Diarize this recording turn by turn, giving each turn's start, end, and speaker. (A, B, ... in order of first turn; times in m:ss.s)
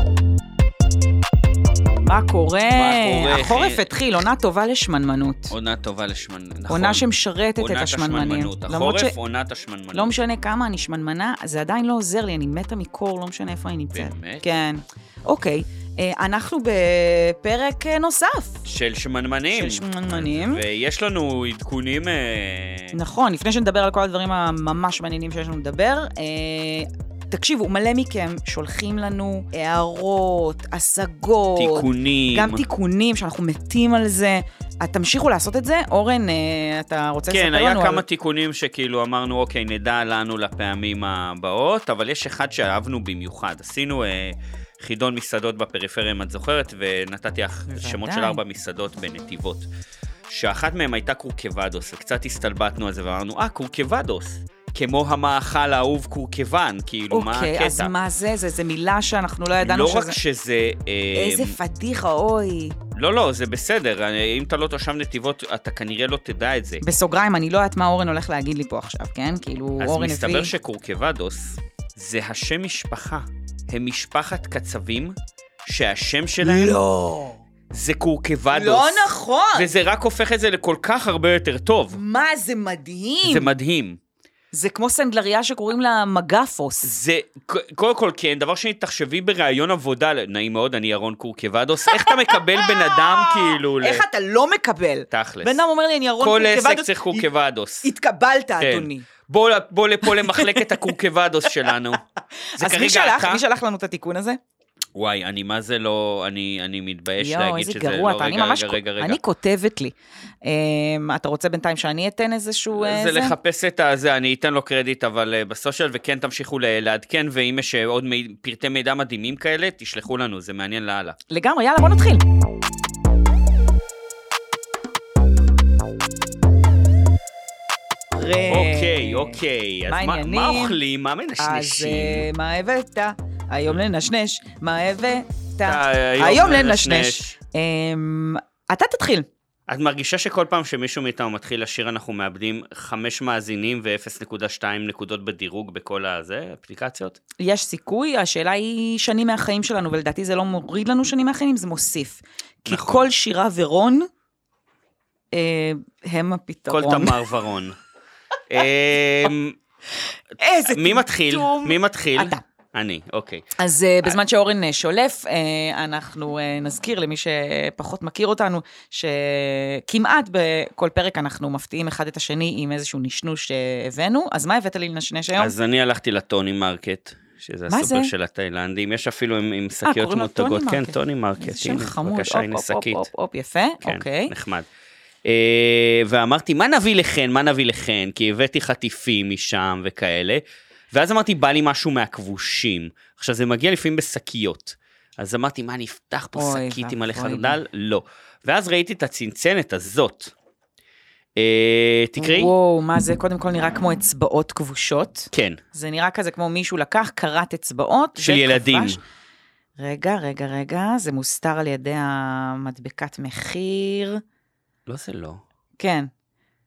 0:02.0-0:05.6 A
0:02.8-0:03.8 B
0:05.5-0:07.0 B
0:06.7-0:09.2 A
0:07.6-0:10.2 B
0:09.9-0:18.6 A
0:13.9-0:14.4 B
0:18.6-0:23.0 B
0:19.5-0:20.6 A
0:22.9-0:38.0 A
0:31.6-0:32.6 B
0:37.3-0:49.7 B
0:47.7-0:48.4 A
0:50.3-0:57.9 B
0:57.1-1:00.2 A
0:59.6-1:01.6 B
1:01.1-1:02.8 A
1:02.9-1:06.8 B
1:06.8-1:10.5 A
1:09.8-1:16.8 B
1:16.4-1:17.4 A
1:17.7-1:22.0 B
1:18.5-1:19.7 A
1:21.9-1:23.5 A
1:23.2-1:24.0 B
1:24.5-1:26.9 A
1:26.8-1:34.0 B
1:31.9-1:37.3 A
1:35.1-1:35.6 B
1:36.2-1:37.9 B
1:37.8-1:39.1 A
1:38.6-1:42.0 B
1:40.0-1:40.6 A
1:42.5-1:44.4 A
1:42.6-1:43.4 B
1:45.0-1:49.2 B
1:47.2-1:53.4 A
1:52.7-2:01.2 B
2:01.3-2:02.2 A
2:08.2-2:10.8 A
2:08.5-2:12.3 B
2:11.4-2:19.3 A
2:15.6-2:17.4 B
2:19.7-2:27.2 B
2:27.4-2:34.1 A
2:32.7-2:33.1 B
2:35.3-2:37.3 A
2:36.7-2:37.8 B
2:38.5-2:39.6 B
2:40.4-2:42.4 A
2:40.7-2:44.2 B
2:43.6-2:55.5 A
2:55.4-3:03.1 B
2:57.7-2:58.1 A
2:59.8-3:04.3 A
3:03.8-3:04.7 B
3:05.2-3:20.3 B
3:16.3-3:17.6 A
3:21.4-3:22.5 B
3:22.2-3:29.0 A
3:25.3-3:25.6 B
3:28.2-3:29.0 B
3:29.8-3:34.2 A
3:34.9-3:35.4 B
3:35.8-3:36.1 A